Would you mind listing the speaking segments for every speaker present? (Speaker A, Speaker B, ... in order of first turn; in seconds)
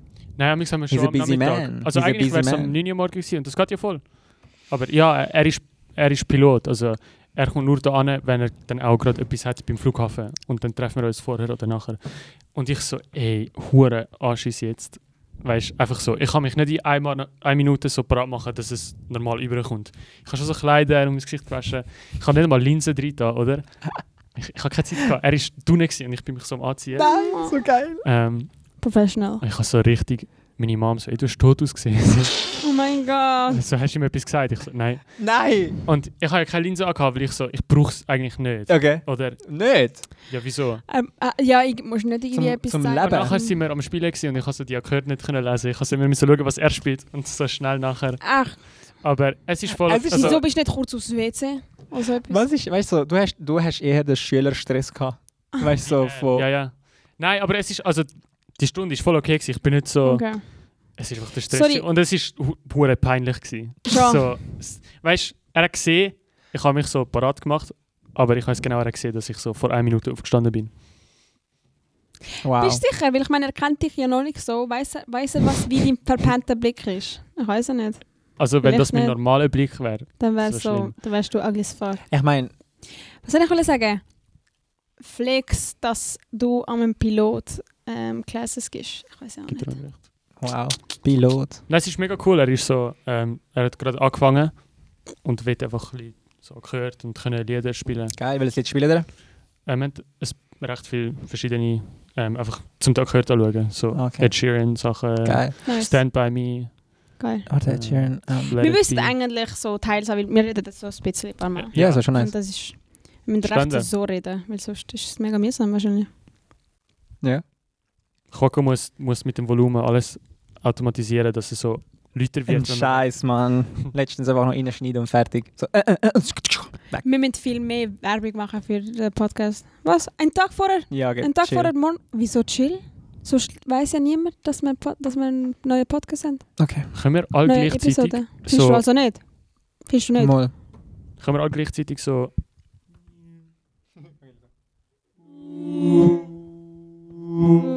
Speaker A: 0.4-27.3, 28.0-32.6, 33.5-40.9, 43.0-50.4, 55.8-70.7, 78.4-81.0, 89.5-90.0, 91.7-98.2, 99.7-107.1, 107.7-109.2, 111.6-112.1, 113.4-113.9, 118.3-123.2, 136.9-138.8, 141.2-142.4
Speaker B: 0.9-2.8, 27.0-28.1, 35.2-35.8, 38.7-40.1, 42.3-43.4, 49.7-50.4, 52.3-56.5, 72.4-72.8, 82.1-82.5, 90.4-91.6, 98.1-99.1, 103.9-105.6, 107.5-108.6, 111.7-112.3, 122.5-127.0, 130.9-131.7, 136.6-136.9, 140.2-140.5, 145.9-146.2
Speaker C: 27.0-27.6, 28.8-29.4, 32.6-33.6, 40.9-43.6, 48.2-48.6, 50.1-52.5, 60.0-60.8, 61.5-61.9, 63.9-64.2, 72.6-79.2, 80.2-82.0, 83.2-84.0, 85.0-89.8, 105.7-106.0, 107.2-107.5, 108.6-116.1, 127.0-136.5, 137.4-140.4